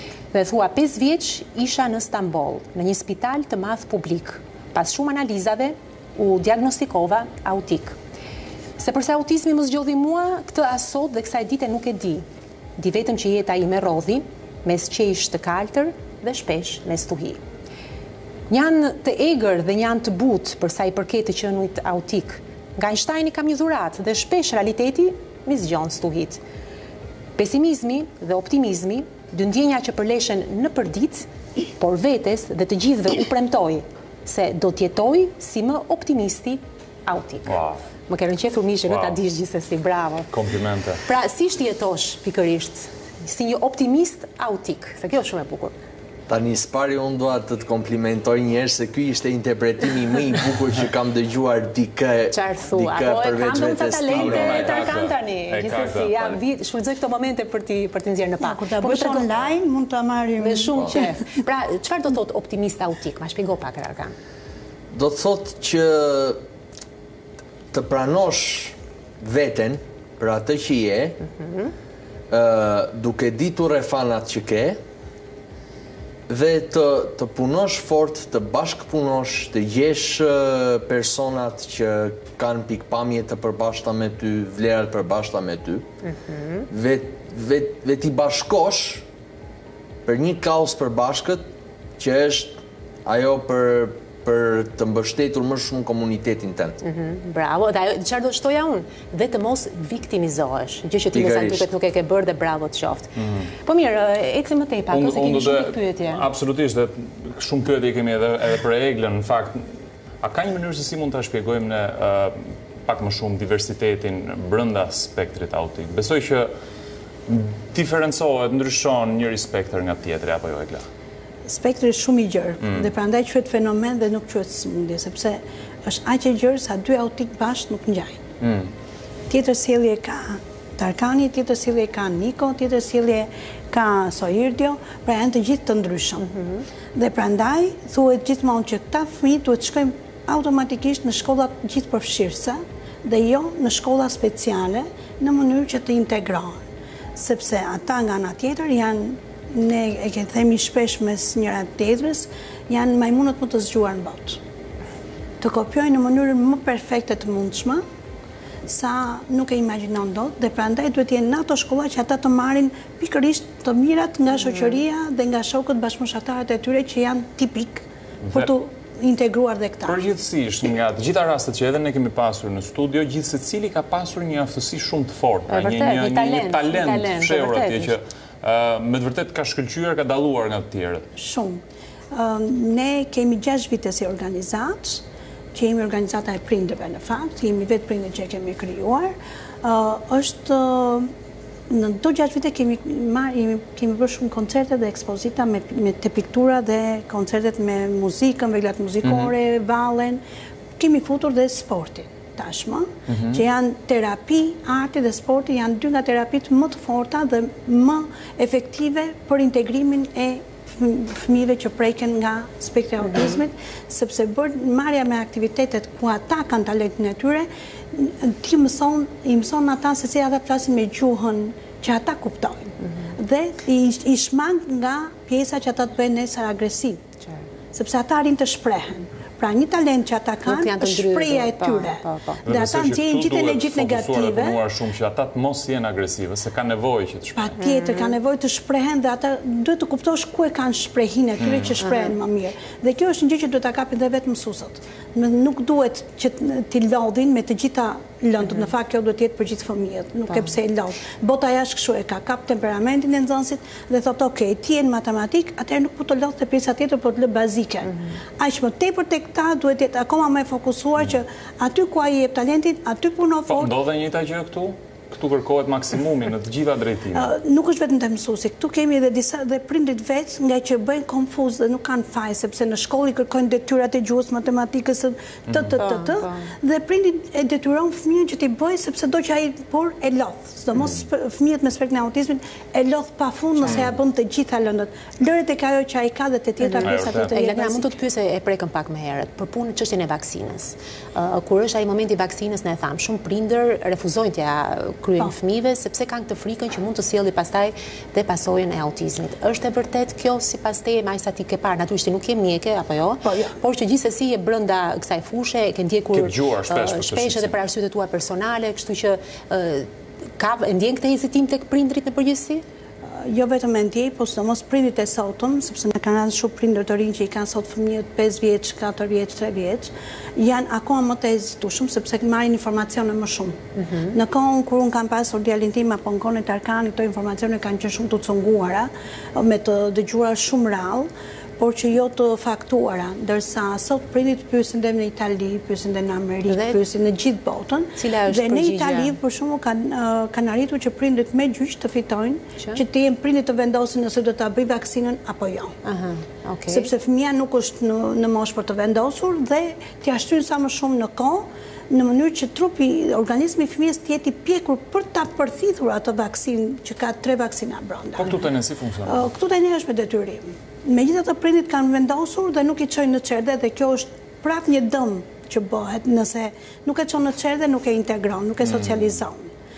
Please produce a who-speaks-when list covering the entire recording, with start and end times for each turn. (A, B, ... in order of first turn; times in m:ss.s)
0:00.3-0:08.0 A
0:08.8-0:12.2 A
0:12.8-0:17.4 A
0:18.5-0:26.4 A
0:27.4-0:37.5 A
0:37.4-0:37.8 B
0:38.1-0:40.3 A
0:38.8-0:39.2 B
0:40.3-0:41.0 B
0:41.0-0:45.7 A
0:46.3-0:54.8 C
0:52.3-0:59.5 A
0:54.1-0:56.4 B
0:58.4-1:01.2 D
1:00.4-1:04.1 A
1:04.9-1:06.4 C
1:07.7-1:11.2 C
1:11.3-1:11.7 A
1:12.3-1:14.8 C
1:16.3-1:25.8 C
1:26.0-1:26.7 A
1:26.7-1:29.0 C
1:30.0-1:31.5 C
1:32.0-1:36.8 C
1:36.8-1:46.2 A
1:41.1-1:41.7 C
1:43.2-1:43.5 B
1:44.9-1:49.7 B
1:50.2-1:56.5 B
1:57.3-2:00.8 B
2:01.4-2:08.2 D
2:08.4-2:08.7 B
2:09.3-2:16.4 D
2:16.9-2:26.6 D
2:27.1-2:34.4 D
2:35.4-2:37.8 D
2:38.7-2:50.0 D
2:49.8-3:01.0 B
2:55.5-2:57.9 A
3:01.2-3:01.6 D
3:02.1-3:11.1 D
3:11.7-3:20.2 D
3:19.0-3:19.3 B
3:20.8-3:47.0 D
3:23.1-3:23.4 B
3:47.7-3:54.6 D
3:50.4-3:52.4 A
3:52.4-3:57.6 B
3:57.4-4:23.7 D
3:57.6-3:58.1 A
4:01.4-4:01.8 B
4:01.8-4:02.1 A
4:23.5-4:27.3 B
4:27.1-4:47.9 D
4:35.5-4:35.7 B
4:35.8-4:36.5 A
4:43.6-4:43.9 B
4:46.6-5:12.6 A
4:46.8-4:47.4 B
5:03.2-5:03.6 D
5:06.1-5:07.5 B
5:13.1-5:45.7 D
5:36.5-5:36.8 A
5:38.0-5:39.2 A
5:45.8-5:46.9 A
5:46.7-5:58.4 D
5:58.2-5:59.3 B
5:59.0-6:09.5 D
6:08.6-6:09.1 B